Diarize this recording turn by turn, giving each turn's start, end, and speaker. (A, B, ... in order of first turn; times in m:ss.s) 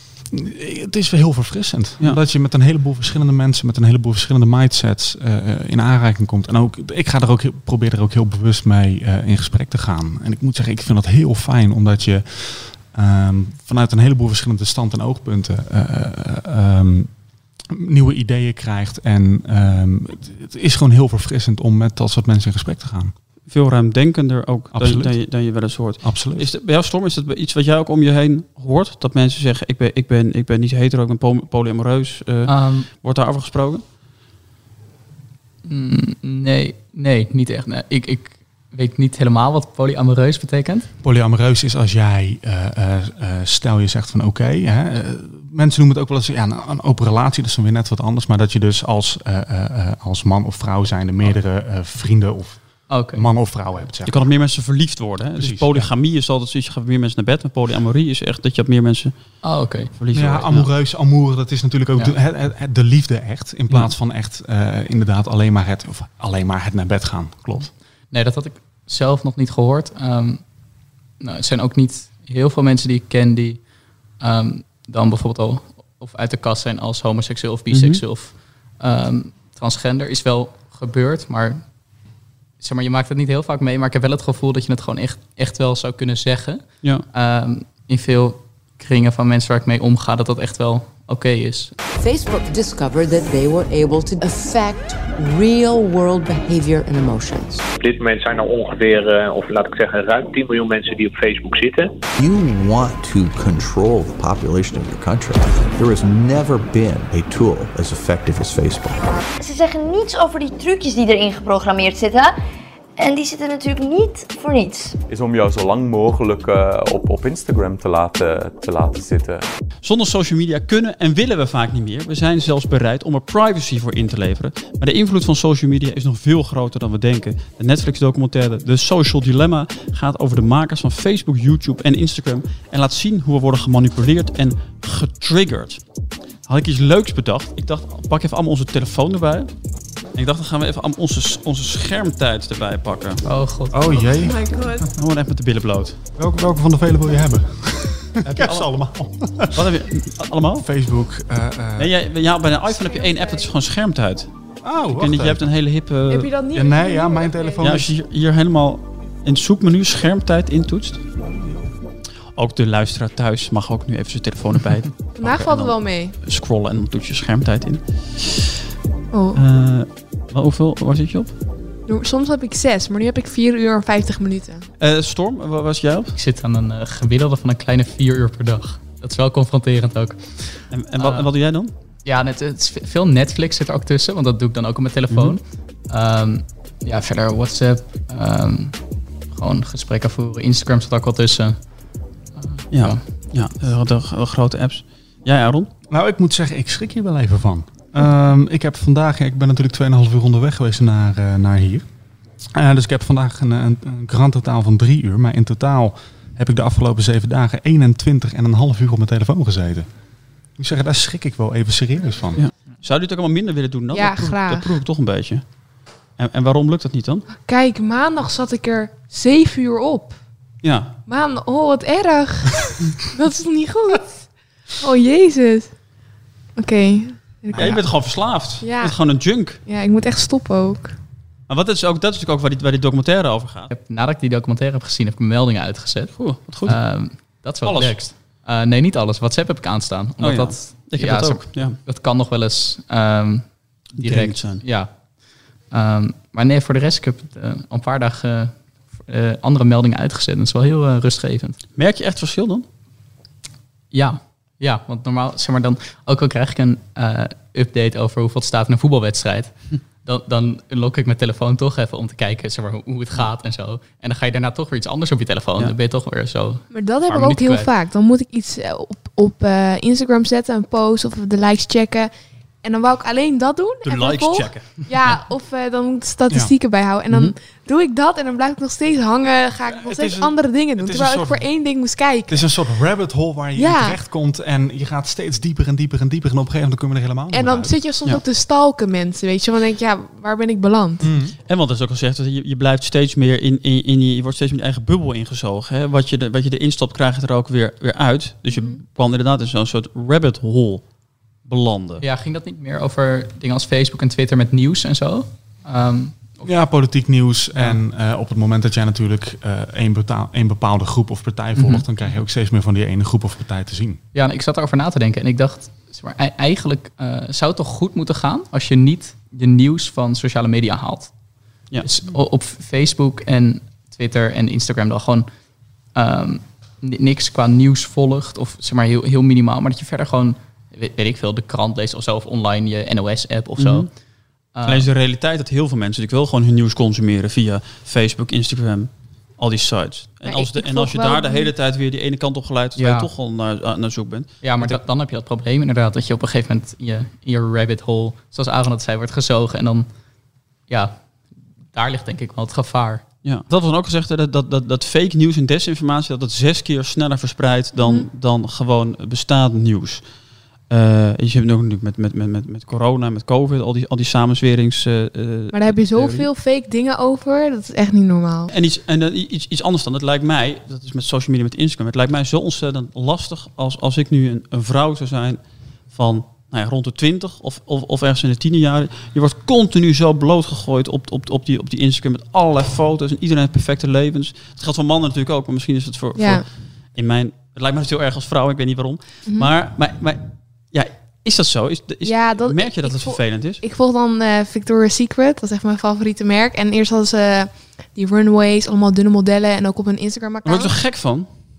0:00.3-0:17.1 A
0:17.7-0:23.2 A
0:23.5-0:33.8 B
0:24.7-0:26.5 A
0:32.5-0:32.9 C
0:35.6-0:40.9 C
0:41.0-0:54.3 A
0:52.9-0:53.3 C
0:54.1-0:59.1 B
0:55.4-0:55.9 A
0:59.4-0:59.9 C
1:00.0-1:00.6 B
1:00.1-1:07.7 A
1:08.1-1:10.4 C
1:11.2-1:13.7 C
1:14.2-1:21.7 C
1:17.7-1:18.0 B
1:22.6-1:31.8 C
1:32.0-1:37.6 D
1:37.8-1:41.9 E
1:42.2-1:49.0 F
1:49.4-1:52.3 G
1:53.0-1:54.9 G
1:55.1-1:59.4 H
1:59.8-2:15.8 B
2:16.5-2:19.5 B
2:20.1-2:23.2 B
2:23.2-2:24.1 C
2:23.7-2:24.9 A
2:24.2-2:24.9 I
2:24.9-2:26.0 B
2:26.2-2:29.8 A
2:28.2-2:28.7 B
2:29.6-2:30.7 B
2:30.6-2:31.9 A
2:31.8-2:34.3 B
2:32.7-2:33.5 I
2:34.6-2:35.5 A
2:34.9-2:36.3 B
2:36.1-2:37.6 I
2:36.5-2:37.9 A
2:37.6-2:41.0 B
2:41.2-2:41.7 A
2:42.4-2:48.5 B
2:45.2-2:46.2 I
2:49.1-2:49.4 I
2:49.3-2:51.3 B
2:51.9-2:54.7 I
2:54.8-2:56.2 B
2:56.2-3:01.3 C
3:00.7-3:01.7 B
3:02.0-3:08.8 C
3:05.1-3:05.4 B
3:09.3-3:11.6 C
3:12.4-3:13.0 C
3:12.7-3:15.7 B
3:15.9-3:21.9 A
3:22.5-3:30.0 A
3:30.5-3:32.4 A
3:32.4-3:35.5 B
3:33.9-3:34.7 I
3:36.1-3:37.3 B
3:37.3-3:40.2 I
3:40.6-3:40.9 B
3:41.1-3:45.8 I
3:46.6-3:51.0 I
3:47.5-3:49.6 B
3:51.5-3:53.7 B
3:53.7-4:11.6 C
3:56.2-3:58.0 B
4:00.2-4:01.8 B
4:04.0-4:04.6 B
4:11.8-4:12.6 B
4:13.9-4:27.7 C
4:26.7-4:32.1 I
4:32.6-4:42.6 I
4:33.8-4:35.0 B
4:37.1-4:37.4 B
4:39.7-4:41.6 A
4:42.3-4:47.8 A
4:43.6-4:44.0 I
4:47.3-4:51.1 I
4:51.0-4:51.4 A
4:51.5-5:00.9 B
4:58.5-4:58.8 I
5:01.4-5:02.0 B
5:02.0-5:06.5 C
5:06.4-5:14.0 A
5:11.6-5:12.1 C
5:14.1-5:21.1 C
5:21.8-5:25.3 C
5:25.9-5:33.9 C
5:33.6-5:33.9 B
5:34.5-5:34.9 C
5:34.6-5:44.8 B
5:40.2-5:41.5 I
5:42.8-5:43.1 C
5:44.4-5:49.9 C
5:50.7-5:53.0 C
5:53.2-6:00.1 B
5:57.8-5:58.1 I
6:00.7-6:06.3 B
6:05.5-6:08.5 I
6:08.5-6:33.6 B
6:26.2-6:26.4 I
6:29.2-6:29.5 I
6:32.0-6:40.8 I
6:40.4-6:41.3 B